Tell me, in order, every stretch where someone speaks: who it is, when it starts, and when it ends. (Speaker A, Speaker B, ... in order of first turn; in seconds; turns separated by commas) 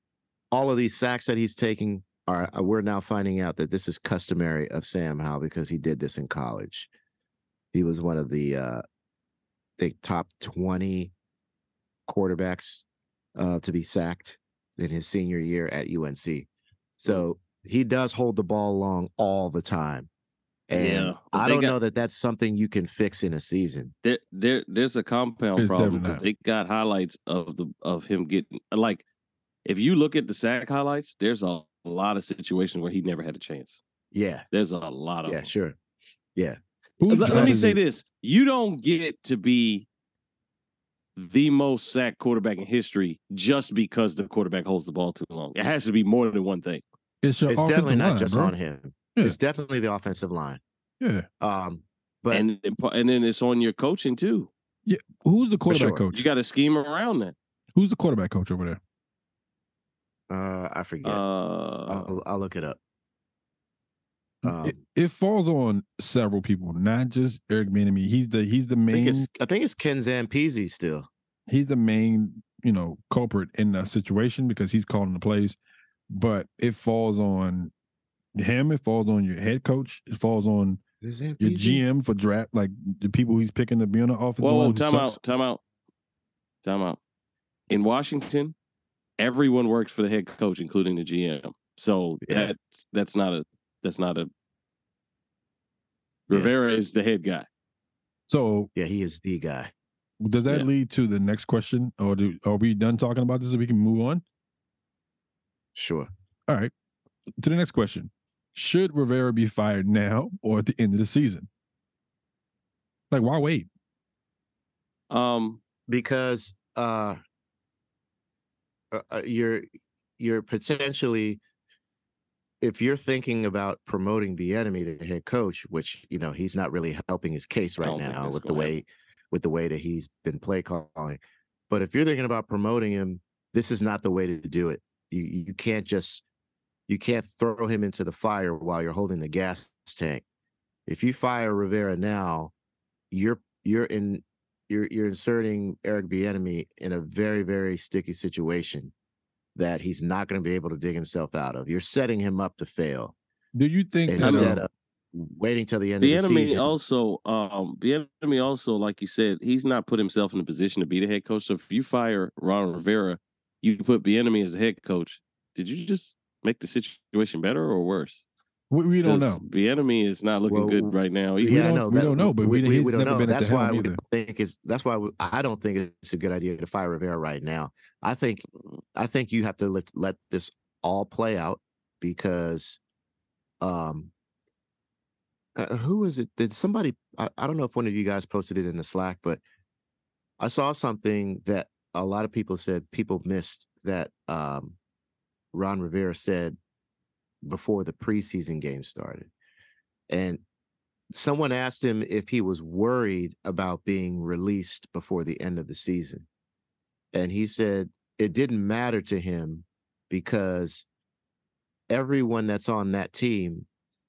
Speaker A: 0.5-6.9, Speaker A: 7.7-8.8, Speaker A: 9.8-11.1, Speaker A: 12.1-12.8, Speaker A: 13.4-20.1, Speaker A: 20.7-23.9, Speaker B: 20.7-21.8, Speaker B: 24.0-29.0, Speaker C: 25.6-26.2, Speaker B: 29.6-33.8, Speaker A: 34.1-34.5, Speaker B: 34.5-35.5, Speaker A: 35.3-35.8, Speaker C: 37.0-37.8, Speaker B: 37.1-39.9, Speaker A: 37.2-37.5, Speaker B: 41.2-46.8, Speaker C: 47.2-48.5, Speaker A: 47.5-50.6, Speaker C: 51.0-51.3, Speaker A: 51.4-52.5, Speaker B: 52.3-54.5, Speaker C: 54.9-56.3, Speaker A: 55.7-56.0, Speaker B: 56.1-57.4, Speaker C: 57.8-58.8, Speaker A: 60.3-61.2, Speaker B: 61.0-62.1, Speaker A: 61.9-62.8, Speaker A: 64.4-64.8, Speaker C: 64.5-69.3, Speaker A: 68.9-71.1, Speaker C: 71.5-75.6, Speaker C: 76.1-77.7, Speaker C: 78.3-80.8, Speaker A: 81.0-81.8, Speaker C: 81.4-85.2, Speaker B: 84.4-85.6, Speaker B: 86.7-87.0, Speaker B: 87.7-88.5, Speaker B: 89.2-94.3, Speaker A: 92.2-92.5, Speaker B: 96.3-97.5, Speaker C: 98.3-98.7, Speaker A: 98.8-99.7, Speaker C: 100.2-104.2, Speaker A: 105.8-106.1, Speaker C: 107.4-111.5, Speaker C: 113.1-113.7, Speaker B: 115.1-115.6, Speaker A: 115.9-117.2, Speaker A: 118.9-119.7, Speaker A: 120.2-121.4, Speaker A: 122.6-136.2, Speaker B: 127.8-128.7, Speaker A: 136.9-140.2, Speaker A: 140.9-142.5, Speaker A: 143.1-148.9, Speaker A: 149.6-153.2, Speaker C: 153.6-154.6, Speaker A: 154.1-156.7, Speaker B: 154.2-154.6, Speaker B: 156.0-168.2, Speaker C: 168.7-169.4, Speaker B: 169.0-171.7, Speaker A: 170.5-182.8, Speaker C: 171.4-174.0, Speaker A: 183.6-184.1, Speaker A: 185.6-189.4, Speaker A: 190.4-194.8, Speaker A: 195.5-196.6, Speaker A: 197.4-199.3, Speaker A: 200.1-200.4, Speaker A: 201.1-206.3, Speaker A: 207.1-210.9, Speaker A: 211.9-213.7